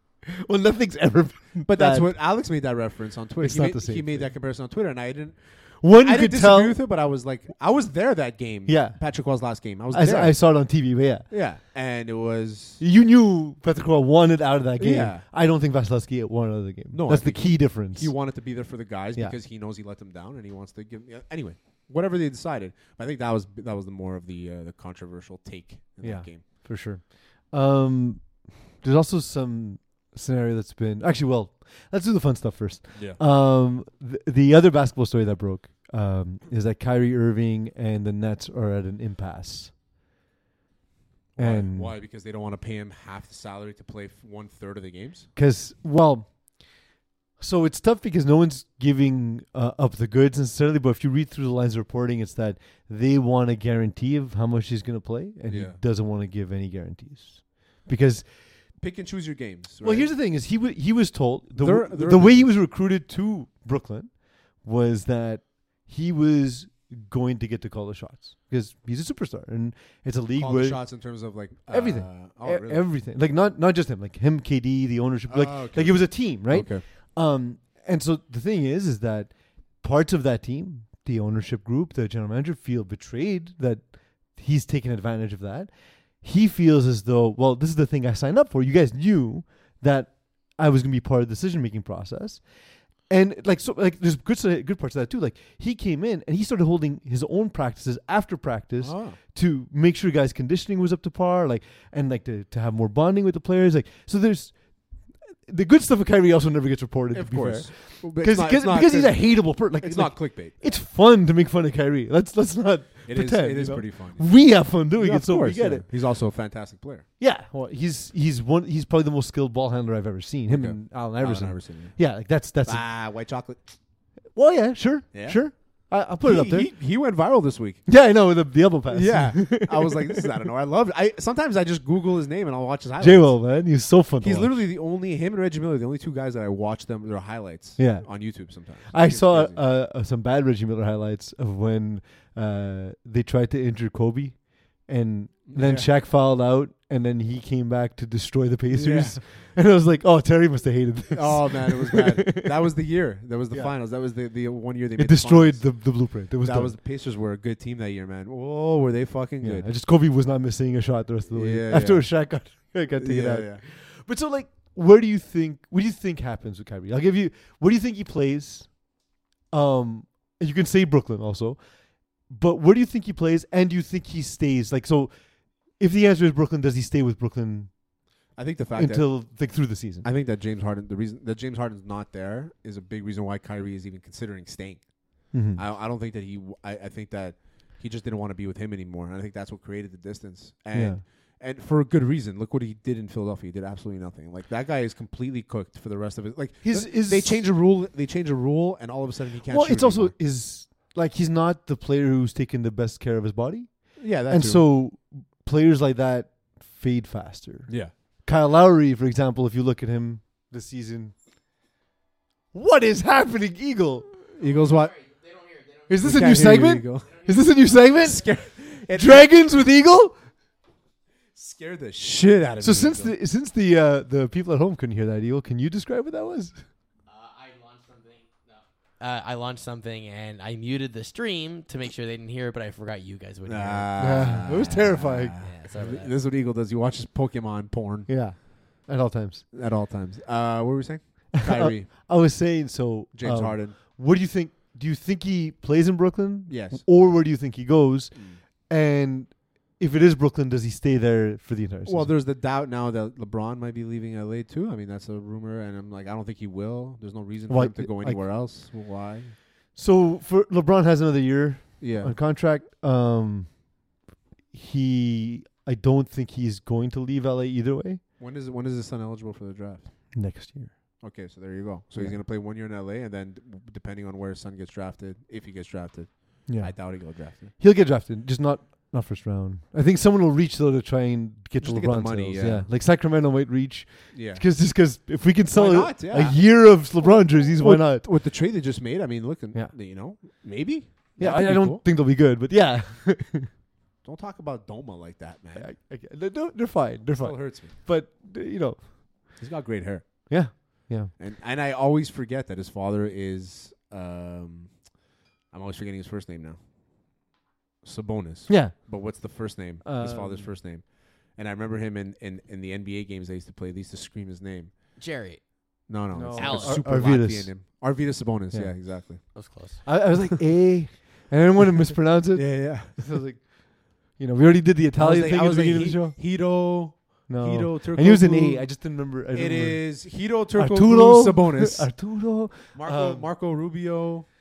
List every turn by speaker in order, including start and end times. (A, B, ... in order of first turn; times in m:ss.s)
0:00.2-0:02.1 A
0:01.6-0:10.4 B
0:03.4-0:04.3 A
0:05.8-0:06.8 A
0:08.6-0:09.0 A
0:09.9-0:11.3 A
0:11.3-0:12.8 B
0:12.8-0:18.2 A
0:14.8-0:15.2 B
0:16.9-0:26.4 B
0:26.0-0:39.7 A
0:32.9-0:33.2 B
0:41.4-0:45.3 B
0:41.4-0:41.9 A
0:45.4-0:46.4 A
0:47.4-0:58.3 A
0:55.5-0:55.8 B
0:58.8-1:00.1 B
0:59.8-1:10.8 A
1:01.6-1:02.5 B
1:10.3-1:12.9 B
1:11.7-1:55.8 A
1:15.3-1:16.8 B
1:38.8-1:39.2 B
1:47.1-1:50.7 B
1:53.1-1:57.0 B
1:57.2-2:02.8 A
2:00.5-2:02.1 B
2:02.6-2:03.7 B
2:04.3-2:06.7 A
2:05.1-2:07.9 B
2:07.8-2:10.3 A
2:08.9-2:13.5 B
2:13.0-2:14.6 A
2:14.2-2:19.6 B
2:17.8-2:32.5 A
2:25.5-2:25.9 B
2:28.7-2:29.2 B
2:31.1-2:39.7 B
2:35.0-2:36.8 A
2:39.4-2:49.0 A
2:41.3-2:43.6 B
2:49.5-2:51.6 A
2:52.2-2:57.8 A
2:58.3-3:20.2 B
2:58.7-3:00.0 A
3:05.3-3:05.6 A
3:10.7-3:11.0 A
3:16.6-3:17.5 A
3:19.4-3:31.2 A
3:24.0-3:24.6 B
3:27.7-3:27.9 B
3:32.5-3:34.1 A
3:34.4-3:35.0 B
3:34.4-3:35.9 C
3:35.9-3:40.2 A
3:36.0-3:37.1 B
3:38.0-3:39.3 B
3:41.3-3:43.1 B
3:42.6-3:46.6 A
3:47.1-3:54.5 C
3:53.5-3:58.4 B
3:54.0-3:55.4 A
3:55.4-3:56.1 C
3:58.1-3:59.4 A
3:59.5-4:02.1 B
4:01.3-4:12.1 A
4:03.1-4:03.8 B
4:06.5-4:06.8 B
4:08.1-4:08.4 B
4:11.8-4:19.3 B
4:17.5-4:18.3 A
4:19.7-4:23.6 A
4:21.8-4:22.2 B
4:24.5-4:28.0 A
4:28.2-4:30.1 B
4:30.1-4:31.0 A
4:31.0-4:37.5 B
4:36.4-4:48.1 A
4:41.6-4:42.7 B
4:44.1-4:44.4 B
4:45.5-4:51.8 B
4:51.2-4:53.5 A
4:54.0-4:55.7 B
4:55.5-4:59.4 A
4:57.2-4:57.7 B
4:59.4-5:04.9 B
5:00.2-5:01.1 A
5:05.5-5:06.6 B
5:07.8-5:14.7 B
5:08.5-5:09.3 A
5:09.8-5:10.5 A
5:15.0-5:16.9 C
5:15.9-5:19.4 B
5:16.1-5:17.6 A
5:18.5-5:26.2 A
5:19.3-5:20.0 C
5:22.3-5:23.1 B
5:25.0-5:31.9 B
5:27.3-5:33.3 A
5:32.7-5:34.2 B